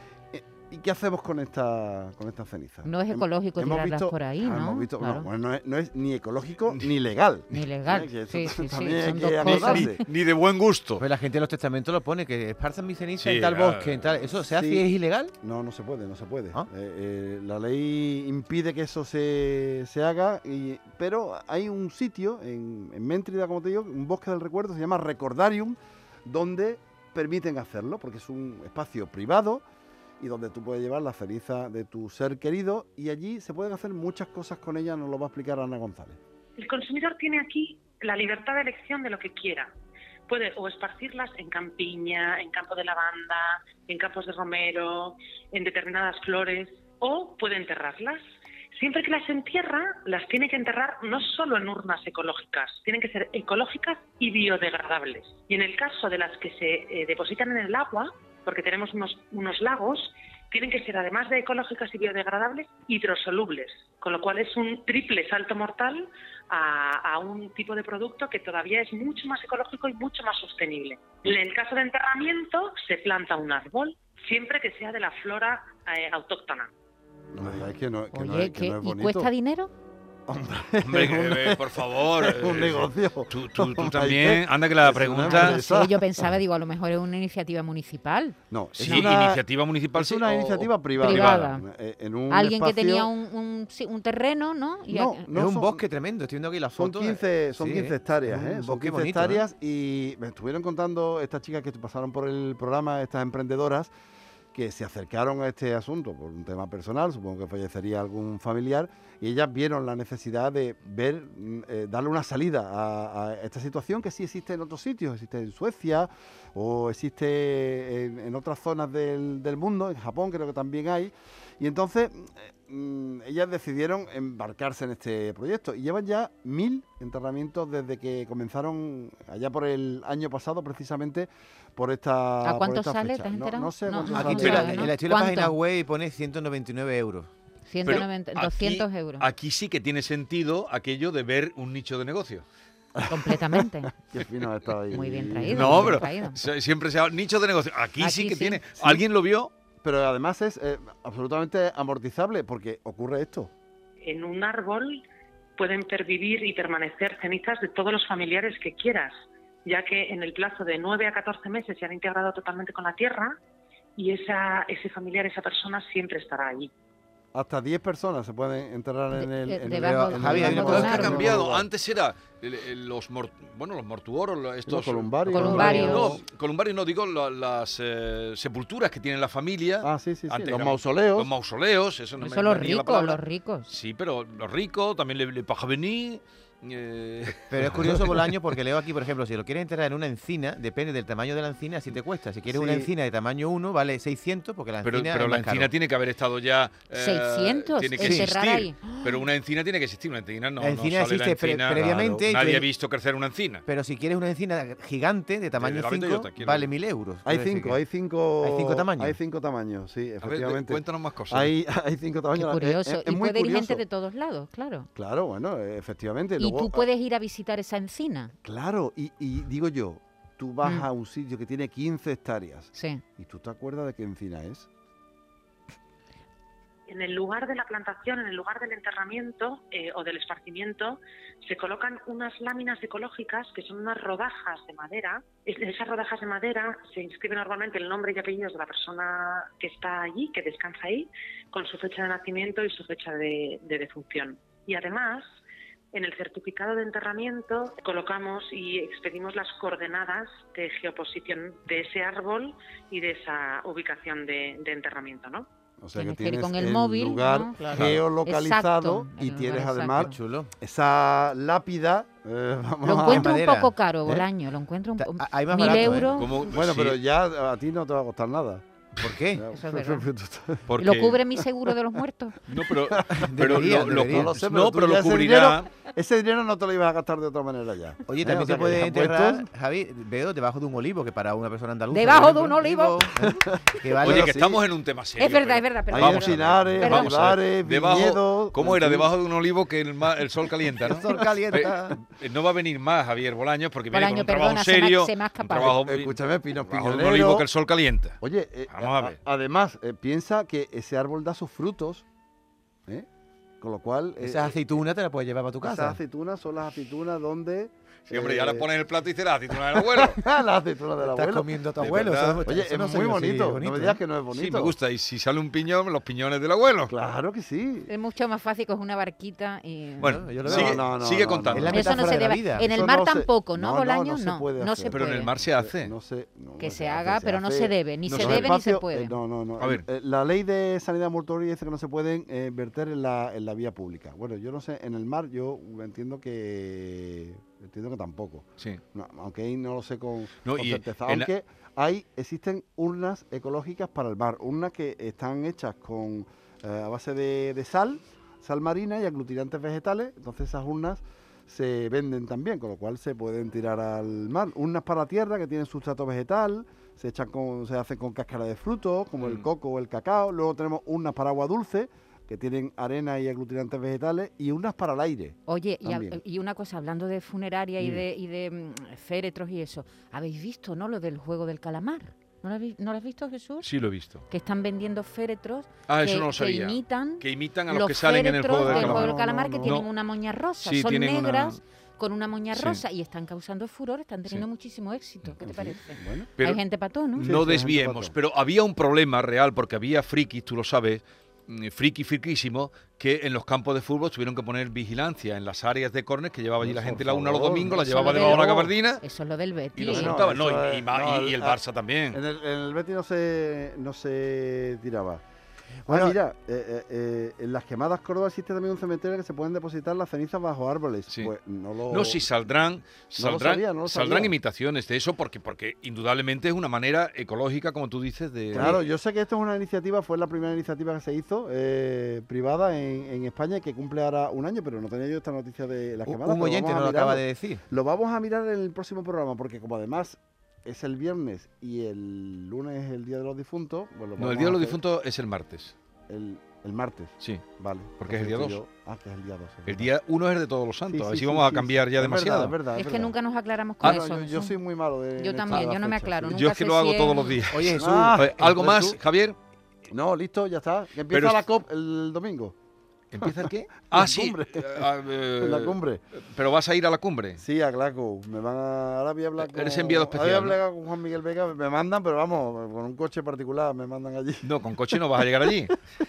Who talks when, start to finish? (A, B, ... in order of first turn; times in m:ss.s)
0:00.3-0:10.0 A
0:02.8-0:05.3 B
0:07.5-0:10.0 B
0:09.4-0:09.8 C
0:09.4-0:11.0 D
0:11.0-0:15.3 C
0:13.2-0:14.1 D
0:14.4-0:14.9 A
0:15.4-0:29.6 A
0:30.2-0:36.2 A
0:36.6-0:39.7 E
0:40.3-0:48.2 E
0:48.8-1:16.7 E
1:17.3-1:19.3 A
1:18.1-1:19.7 B
1:20.3-1:26.3 A
1:20.8-1:25.6 D
1:25.2-1:28.4 B
1:28.5-1:29.4 A
1:28.7-1:31.5 D
1:28.8-1:29.2 C
1:29.9-1:33.1 A
1:31.0-1:31.6 B
1:32.3-1:35.3 B
1:34.9-1:35.8 A
1:35.3-1:39.4 C
1:36.8-1:43.9 A
1:44.5-2:14.9 A
2:12.4-2:15.6 B
2:14.1-2:17.3 C
2:14.2-2:14.8 D
2:17.6-2:19.3 B
2:17.8-2:22.4 D
2:22.9-2:26.0 A
2:23.1-2:23.9 B
2:24.9-2:26.4 B
2:25.5-2:29.5 D
2:28.0-2:28.6 B
2:28.8-2:29.0 A
2:29.8-2:33.5 A
2:34.0-2:35.0 E
2:35.6-2:39.1 E
2:39.6-2:43.3 E
2:44.0-2:46.7 E
2:47.3-2:51.7 A
2:49.1-2:51.3 B
2:49.8-2:51.4 C
2:50.7-3:08.4 D
2:54.6-2:56.2 A
2:55.3-2:56.2 B
2:55.5-2:56.0 C
2:59.8-3:01.3 A
3:02.2-3:03.7 B
3:07.5-3:15.7 C
3:12.5-3:12.9 A
3:14.8-3:23.6 D
3:16.9-3:19.0 B
3:18.0-3:18.3 C
3:20.6-3:22.7 C
3:23.6-3:27.8 C
3:25.6-3:26.7 D
3:27.2-3:33.8 A
3:28.4-3:29.2 C
3:30.2-3:31.5 D
3:32.3-3:34.9 B
3:34.9-3:36.9 A
3:36.4-3:38.3 B
3:38.4-3:44.7 A
3:42.7-3:43.0 B
3:46.9-4:05.2 E
4:05.9-4:15.5 E
4:15.8-4:23.3 A
4:15.9-4:20.2 B
4:17.7-4:18.0 D
4:20.0-4:20.5 C
4:22.8-4:26.4 B
4:23.0-4:24.2 C
4:25.0-4:26.1 C
4:25.6-4:28.6 A
4:26.1-4:27.0 D
4:29.0-4:29.4 C
4:29.3-4:30.6 A
4:29.5-4:30.0 B
4:30.7-4:31.2 D
4:30.8-4:32.4 B
4:32.5-4:35.7 D
4:32.9-4:39.5 A
4:33.1-4:34.3 C
4:38.1-4:44.3 C
4:41.9-4:43.0 B
4:43.2-4:44.6 A
4:44.0-4:59.2 D
4:45.2-4:47.2 B
4:45.9-4:49.1 A
4:50.8-4:52.0 C
4:50.9-4:51.6 A
4:53.9-4:55.8 B
4:55.6-4:57.5 A
4:58.2-5:02.0 A
5:03.6-5:04.6 A
5:04.2-5:06.0 C
5:05.6-5:08.7 A
5:08.1-5:10.2 D
5:09.5-5:14.7 A
5:11.0-5:14.0 C
5:11.8-5:12.4 D
5:14.3-5:16.9 D
5:16.9-5:17.9 A
5:17.9-5:20.2 B
5:20.0-5:21.8 D
5:20.0-5:20.9 C
5:20.4-6:06.2 A
5:21.5-5:22.6 C
5:21.7-5:25.3 B
5:24.9-5:25.9 D
5:26.6-5:29.2 B
5:28.0-5:28.5 D
5:29.6-5:29.8 D
5:40.4-5:41.3 D
5:59.2-5:59.5 D
6:05.5-6:13.7 B
6:13.6-6:14.2 D
6:14.3-6:27.3 B
6:15.9-6:19.9 D
6:18.6-6:19.8 A
6:20.6-6:21.6 D
6:22.5-6:22.8 D
6:25.4-6:26.3 A
6:27.1-6:28.1 A
6:27.2-6:39.0 D
6:36.6-6:38.6 A
6:37.7-6:40.1 B
6:39.7-6:42.2 D
6:39.8-6:41.6 A
6:42.1-6:45.2 A
6:45.8-6:52.2 A
6:51.1-6:51.3 D
6:51.9-6:58.8 D
6:53.2-6:54.3 A
6:58.5-6:58.8 C
6:58.5-7:14.8 A
7:06.0-7:07.6 C
7:14.2-7:15.7 D
7:16.1-7:19.9 A
7:18.0-7:18.6 D
7:19.7-7:22.6 D
7:20.9-7:23.2 A
7:22.8-7:24.6 B
7:23.8-7:26.4 A
7:25.2-7:27.4 B
7:26.3-7:29.4 D
7:27.5-7:28.9 C
7:27.7-7:28.9 A
7:29.9-7:32.5 A
7:31.1-7:31.4 D
7:33.1-7:37.4 D
7:33.2-7:36.0 A
7:37.4-7:45.6 A
7:39.4-7:40.6 D
7:44.4-7:45.7 D